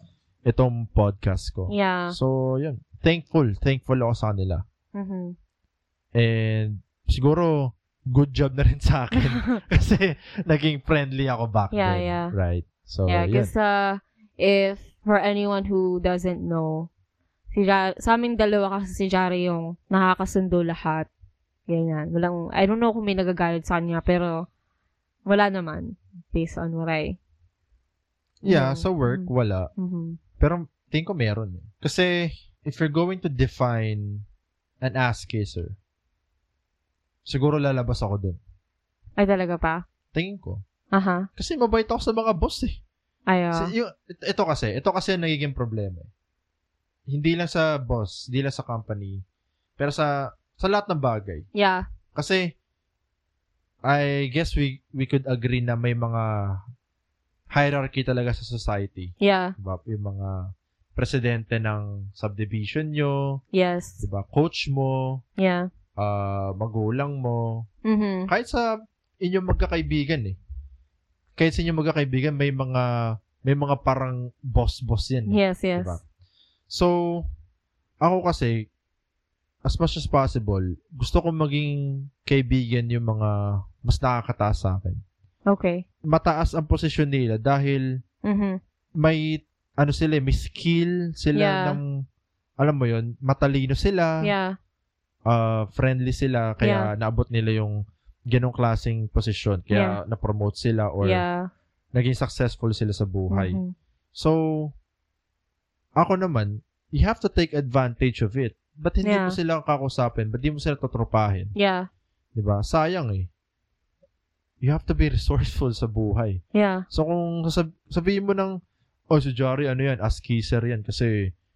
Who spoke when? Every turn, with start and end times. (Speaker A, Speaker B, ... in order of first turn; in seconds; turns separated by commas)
Speaker A: 0.5-4.6, Speaker B: 1.7-2.2, Speaker B: 5.0-5.4, Speaker A: 6.2-13.5, Speaker B: 11.7-12.3, Speaker B: 13.1-16.9, Speaker B: 17.5-21.1, Speaker B: 21.7-24.4, Speaker B: 25.3-27.2, Speaker A: 28.4-29.7, Speaker B: 28.4-30.2, Speaker A: 30.4-34.2, Speaker A: 34.8-35.8, Speaker A: 37.3-38.4, Speaker B: 39.2-39.8, Speaker A: 40.1-40.6, Speaker B: 40.9-41.3, Speaker A: 41.4-42.8, Speaker B: 43.3-43.7, Speaker A: 43.5-46.1, Speaker A: 47.1-49.2, Speaker A: 49.8-51.5, Speaker B: 51.5-51.9, Speaker A: 52.1-52.5, Speaker A: 53.9-56.6, Speaker A: 57.5-63.4, Speaker B: 59.2-59.5, Speaker B: 63.5-64.0, Speaker A: 64.0-65.2, Speaker B: 65.4-65.7, Speaker A: 66.0-67.7, Speaker B: 67.8-68.3, Speaker A: 68.3-70.4, Speaker A: 71.4-72.9, Speaker A: 73.4-76.0, Speaker B: 75.3-76.0, Speaker A: 76.7-77.3, Speaker A: 78.0-78.7, Speaker A: 79.7-85.0, Speaker B: 85.5-85.8, Speaker A: 86.0-88.0, Speaker B: 88.2-88.6, Speaker A: 89.0-92.0, Speaker B: 91.3-91.8, Speaker A: 92.6-94.3, Speaker B: 94.2-94.6, Speaker A: 95.3-101.2, Speaker B: 96.6-96.9, Speaker B: 99.7-100.0, Speaker B: 101.0-101.5, Speaker A: 101.9-103.6, Speaker B: 103.3-103.7, Speaker A: 104.2-104.7, Speaker A: 106.0-111.5, Speaker B: 109.0-109.4, Speaker B: 111.5-111.9, Speaker A: 112.3-113.3, Speaker A: 114.6-116.4, Speaker B: 116.5-116.8, Speaker A: 116.9-118.6, Speaker A: 119.1-121.3